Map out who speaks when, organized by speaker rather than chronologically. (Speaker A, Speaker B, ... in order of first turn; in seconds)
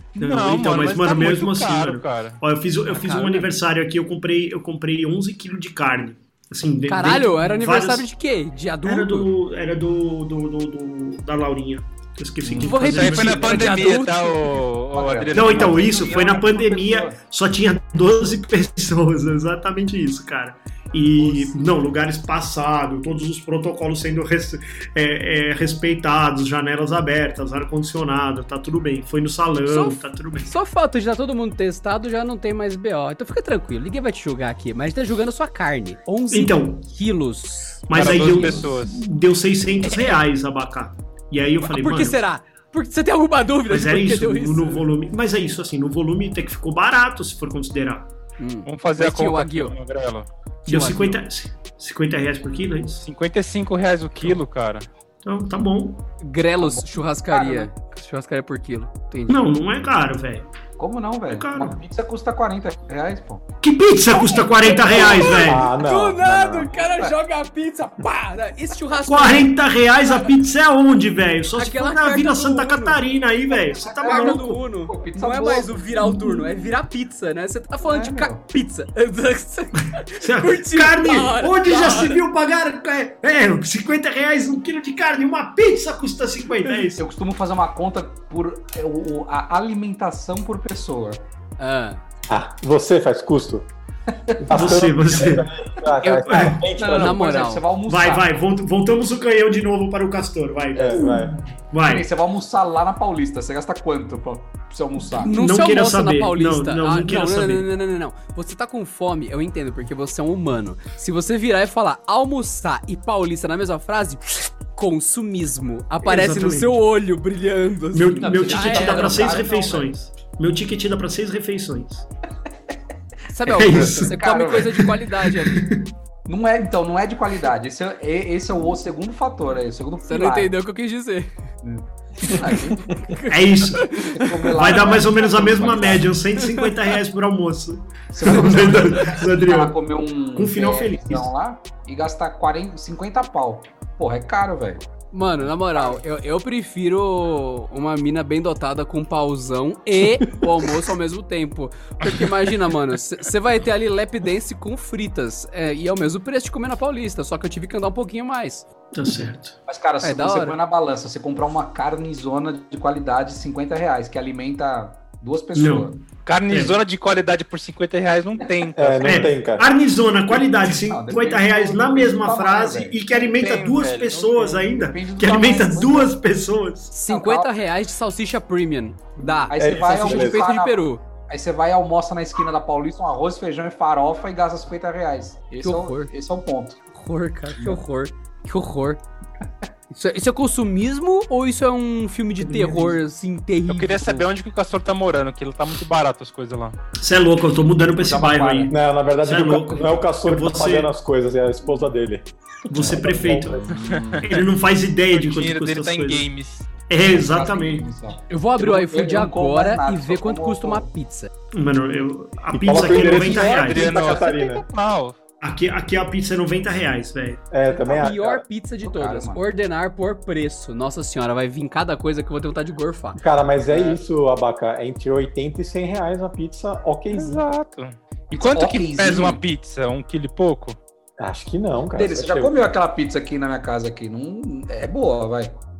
Speaker A: 0.2-2.4, 12.5-16.0, 37.9-39.0, 48.6-50.3, 53.0-54.9, 166.2-169.2, 173.4-174.2, 193.6-196.8, 203.7-204.5, 205.1-206.7, 213.2-215.2, 227.1-230.8
Speaker B: 0.2-8.1, 8.8-13.8, 15.3-30.5, 36.3-36.8, 37.9-42.2, 43.7-48.1, 50.6-53.0, 55.2-56.0, 59.3-60.5, 61.3-61.8, 63.6-65.7, 69.1-74.4, 76.0-76.5, 80.2-87.0, 94.5-95.5, 96.1-96.6, 97.9-102.1, 105.3-107.7, 116.0-116.8, 117.9-122.0, 123.5-125.9, 133.3-134.0, 134.5-139.8, 140.3-141.3, 158.9-159.6, 165.5-166.8, 169.0-176.9, 192.5-192.9, 197.0-200.9, 202.7-203.6, 204.2-206.3, 206.9-207.9, 211.5-214.0, 215.4-217.4
Speaker C: 2.9-3.5, 6.9-9.3, 12.5-14.6, 21.2-21.6, 29.7-37.8, 41.6-44.9, 48.4-49.7, 50.7-51.2, 56.2-59.5, 64.2-69.5, 70.0-70.3, 71.5-73.0, 74.0-82.2, 91.6-92.0, 96.8-97.6, 105.2-119.5, 123.3-125.7, 130.0-131.3, 132.2-135.0, 136.4-136.7, 145.1-158.7, 160.0-160.6, 176.9-181.0, 185.6-186.1, 186.9-189.0, 189.9-194.3, 208.3-211.3, 217.7-223.2
Speaker D: 14.9-17.2, 56.6-57.7, 60.8-63.4, 66.7-67.1, 73.6-75.8, 77.8-78.4, 87.0-91.2, 94.3-94.8, 96.6-98.3, 101.8-105.3, 118.2-119.9, 123.7-124.8, 126.2-130.5, 131.6-132.9, 134.0-136.1, 138.1-144.8, 145.7-146.0, 159.7-166.0, 170.4-173.0, 174.2-176.2, 177.1-177.5, 179.5-186.8, 197.9-198.8, 207.0-210.9, 217.7-218.1, 218.8-219.4, 228.3-229.4, 231.9-235.5
Speaker E: 65.2-66.7, 92.3-93.7, 94.4-97.2, 100.7-101.3, 168.8-169.7, 179.6-180.5, 198.7-204.1, 212.5-214.6, 217.5-218.4, 223.2-227.4, 231.2-232.7